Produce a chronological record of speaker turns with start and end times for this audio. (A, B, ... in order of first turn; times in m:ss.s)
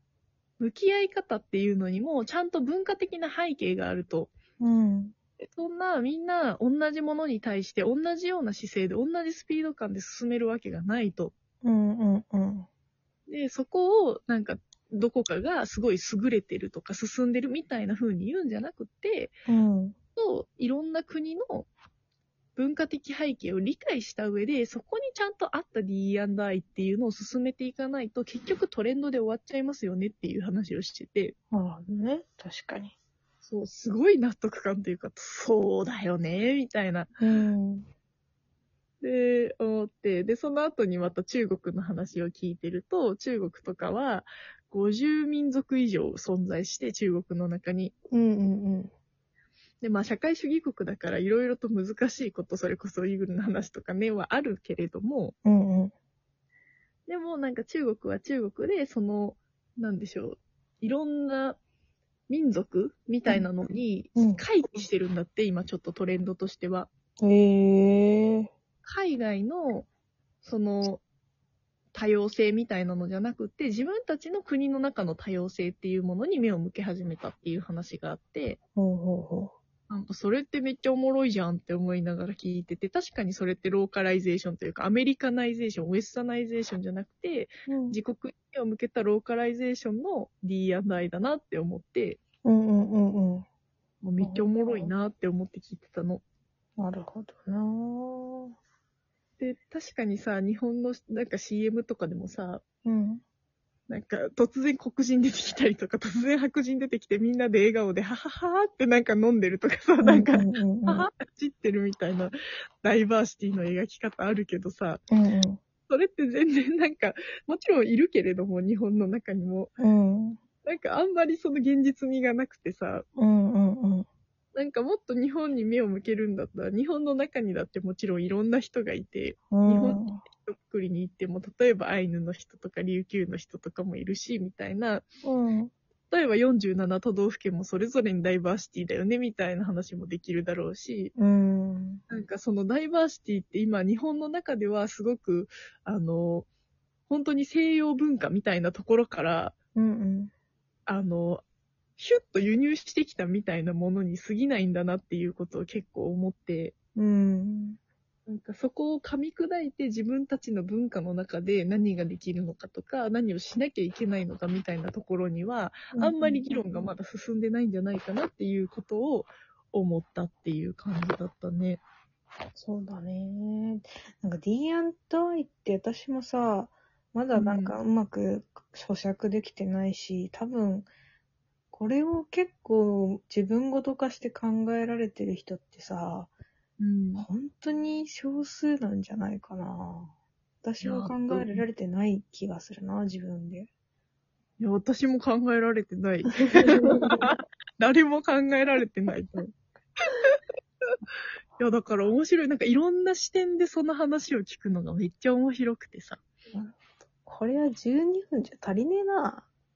0:00.6-0:04.3 A
0:04.6-0:05.1 B
0:05.4-0:11.3 A
0:11.6-0:12.7 B
0:13.3-0:19.3 A
0:19.5-0:19.9 B
0:20.2-0:21.7 A
0:22.6-0:31.3 A
0:31.5-0:32.9 B
0:33.4-0:37.1 A
0:37.2-0:37.8 B
0:39.0-0:47.9 A
0:48.1-0:48.9 B
0:49.8-0:55.3 A
0:55.4-0:55.9 B
0:57.1-1:01.6 A
1:02.3-1:06.9 A
1:04.2-1:04.4 B
1:07.2-1:08.5 B
1:08.8-1:09.9 A
1:10.4-1:11.0 A
1:11.9-1:18.6 A
1:18.8-1:19.5 B
1:19.9-1:32.2 A
1:27.7-1:28.0 B
1:32.4-1:33.4 B
1:34.0-1:36.2 A
1:34.2-1:34.6 B
1:36.8-1:38.5 B
1:39.4-1:42.6 A
1:42.8-1:43.2 B
1:43.9-1:55.0 A
1:50.0-1:51.1 B
1:55.1-1:55.6 B
1:55.9-1:59.7 A
1:59.8-2:00.4 B
2:00.6-2:03.0 A
2:03.2-2:04.0 B
2:04.5-2:15.0 A
2:09.5-2:10.2 B
2:15.2-2:15.7 B
2:16.1-2:21.1 A
2:21.2-2:22.0 B
2:22.1-2:26.5 A
2:27.1-2:29.5 A
2:29.8-2:30.3 B
2:30.9-2:31.4 A
2:32.0-2:36.7 A
2:37.0-2:37.8 B
2:38.3-2:51.8 A
2:45.9-2:46.4 B
2:52.6-3:00.9 B
2:57.3-2:57.8 A
3:01.7-3:06.3 B
3:06.8-3:07.3 A
3:07.2-3:10.1 B
3:10.6-3:13.7 B
3:10.8-3:11.7 A
3:14.6-3:19.5 A
3:16.7-3:17.2 B
3:21.6-3:26.2 A
3:26.5-3:29.4 B